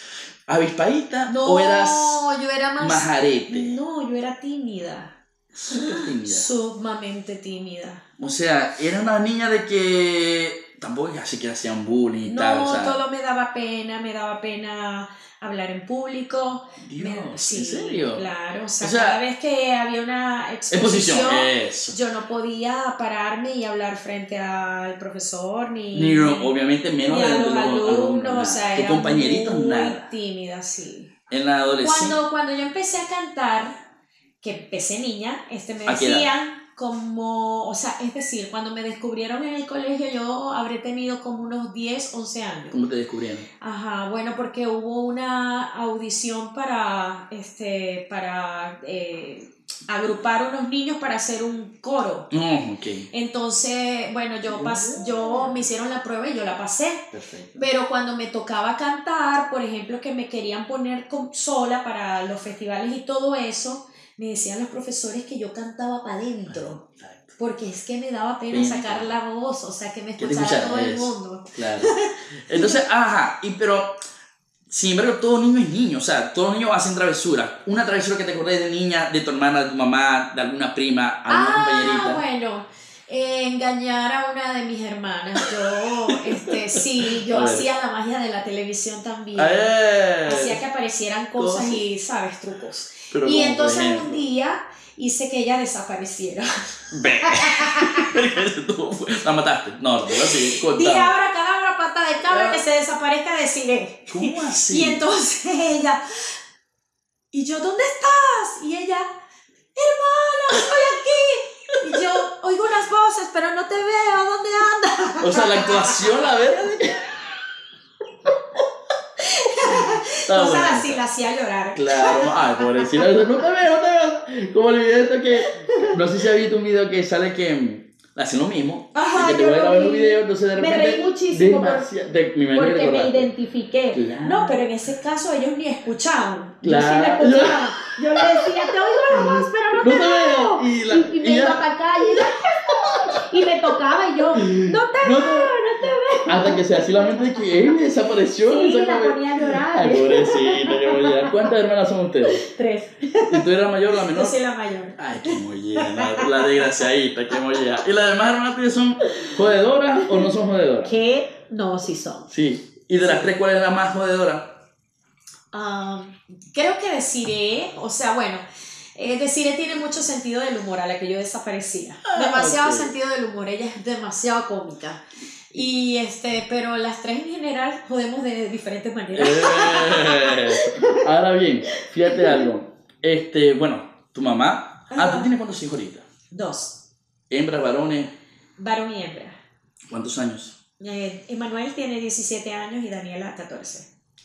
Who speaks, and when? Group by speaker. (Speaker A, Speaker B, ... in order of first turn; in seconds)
Speaker A: 0.5-2.2, 2.8-3.8, 5.5-6.5, 8.2-13.0, 16.8-18.3, 18.8-19.2, 20.7-22.0, 25.9-30.1, 31.3-32.2, 35.9-36.3, 42.7-43.5, 52.3-53.1, 54.5-55.6, 57.1-57.7, 66.5-67.3, 68.5-69.1, 70.2-74.0, 74.7-82.2, 86.1-87.7, 89.4-90.6, 91.4-91.8, 93.1-94.3, 96.9-101.2, 102.3-102.6, 104.1-105.0, 115.2-117.2, 119.6-121.0, 121.8-133.3, 133.9-134.7, 136.6-143.3, 144.3-145.6, 146.3-152.4, 153.2-154.4, 155.0-161.0, 162.3-164.6, 172.1-172.9, 179.1-186.1, 187.3-188.1, 189.9-190.6
Speaker B: 1.3-5.2, 5.7-8.0, 12.2-26.5, 27.1-31.1, 31.8-33.8, 34.4-42.8, 43.6-52.3, 53.1-66.8, 67.4-72.8, 81.3-89.7, 90.2-98.1, 100.1-106.0, 107.3-109.1, 109.8-116.3, 119.2-123.1, 125.4-126.0, 128.9-131.9, 132.5-147.5, 148.4-151.5, 152.3-153.4, 154.0-156.8, 160.8-162.3, 163.0-163.3, 165.5-168.4, 169.0-181.1, 181.7-182.5, 184.9-185.3, 186.3-186.8, 188.6-189.4, 190.8-193.9